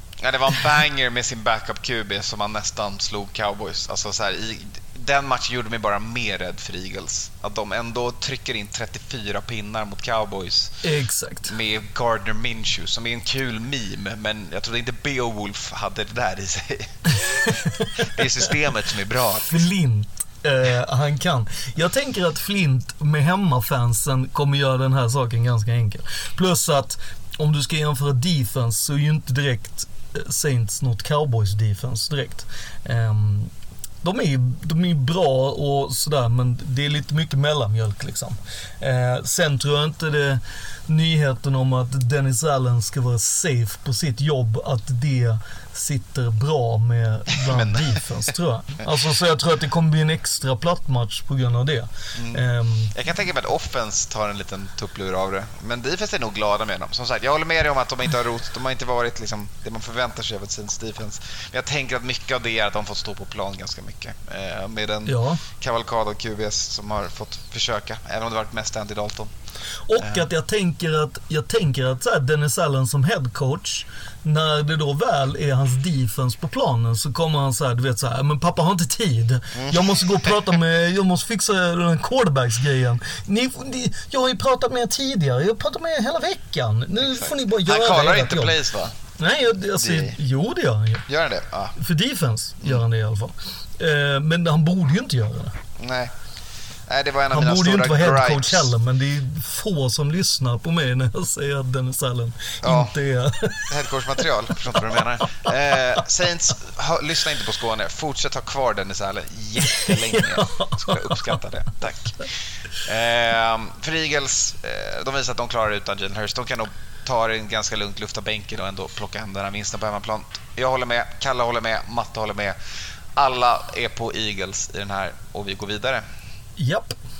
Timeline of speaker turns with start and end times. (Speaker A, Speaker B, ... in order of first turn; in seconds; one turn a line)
Speaker A: 0.2-10.7
Speaker B: 10.8-11.5
Speaker A: 11.4-17.2
Speaker B: 17.2-18.1
Speaker A: 18.0-19.6
Speaker B: 19.4-33.5
Speaker B: 34.0-52.9
Speaker A: 47.5-48.0
Speaker A: 52.1-52.4
Speaker A: 52.9-69.3
Speaker B: 65.0-65.4
Speaker B: 69.9-88.6
Speaker A: 79.5-80.5
Speaker A: 87.1-88.9
Speaker B: 89.2-91.0
Speaker A: 89.8-90.2
Speaker A: 91.1-91.7
Speaker B: 91.8-95.6
Speaker A: 95.8-96.1
Speaker A: 96.9-98.7
Speaker B: 97.3-103.7
Speaker A: 102.6-102.9
Speaker A: 103.7-112.2
Speaker B: 109.7-111.4
Speaker A: 112.8-122.5
Speaker A: 123.2-126.0
Speaker B: 126.6-127.0